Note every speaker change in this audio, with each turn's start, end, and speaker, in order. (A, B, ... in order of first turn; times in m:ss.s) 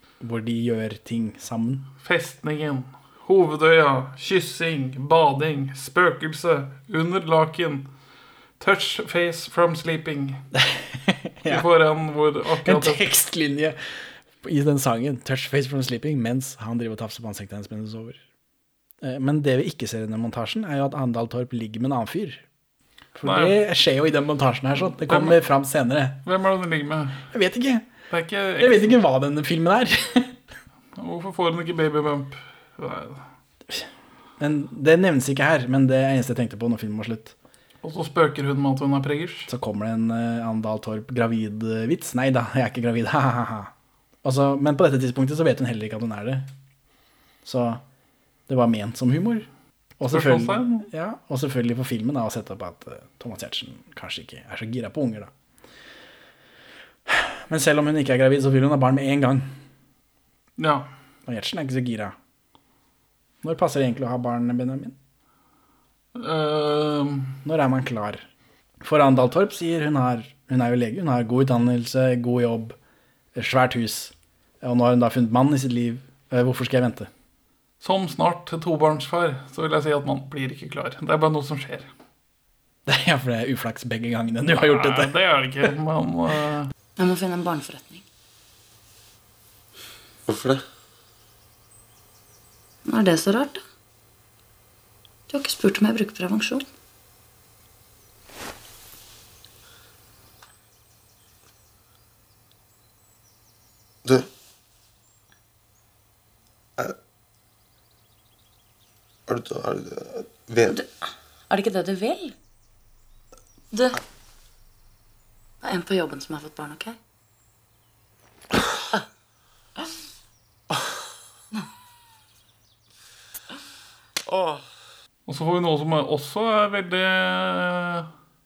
0:00.2-0:01.9 A
0:02.0-0:07.9 B
0:08.6-0:10.4 B
0:10.6-0:11.6 A
0:11.4-0:13.0 B
0:12.6-0:13.8 A
0:14.4-0:18.2 A
0:19.0-0:22.4 A
0:23.2-0:26.2 A
0:23.2-0:23.6 B
0:25.0-0:25.4 B
0:26.2-0:27.2 B
0:27.3-0:27.9 A
0:28.1-0:29.0 B
0:28.6-0:30.4 A
0:31.0-0:33.2 B
0:34.4-0:37.3 A
0:37.8-0:39.5 B
0:39.5-0:43.7 A
0:44.2-0:46.5 A
0:47.4-0:47.8 A
0:48.5-0:49.5 A
0:50.0-0:55.3 A
0:50.1-0:50.9 B
0:57.1-0:59.5 A
1:00.6-1:00.9 B
1:01.3-1:02.1 A
1:03.4-1:04.9 A
1:06.1-1:07.4 B
1:07.4-1:08.2 A
1:08.8-1:12.8 A
1:13.3-1:17.1 A
1:17.8-1:21.9 B
1:22.9-1:25.1 A
1:24.6-1:26.7 B
1:27.0-1:28.0 C
1:30.3-1:30.6 D
1:32.8-1:33.6 C
1:35.3-1:36.6 C
1:49.3-1:50.7 D
1:51.5-1:52.3 C
1:53.7-1:54.0 C
1:55.6-1:57.0 C
2:04.3-2:04.6 D
2:05.3-2:08.1 B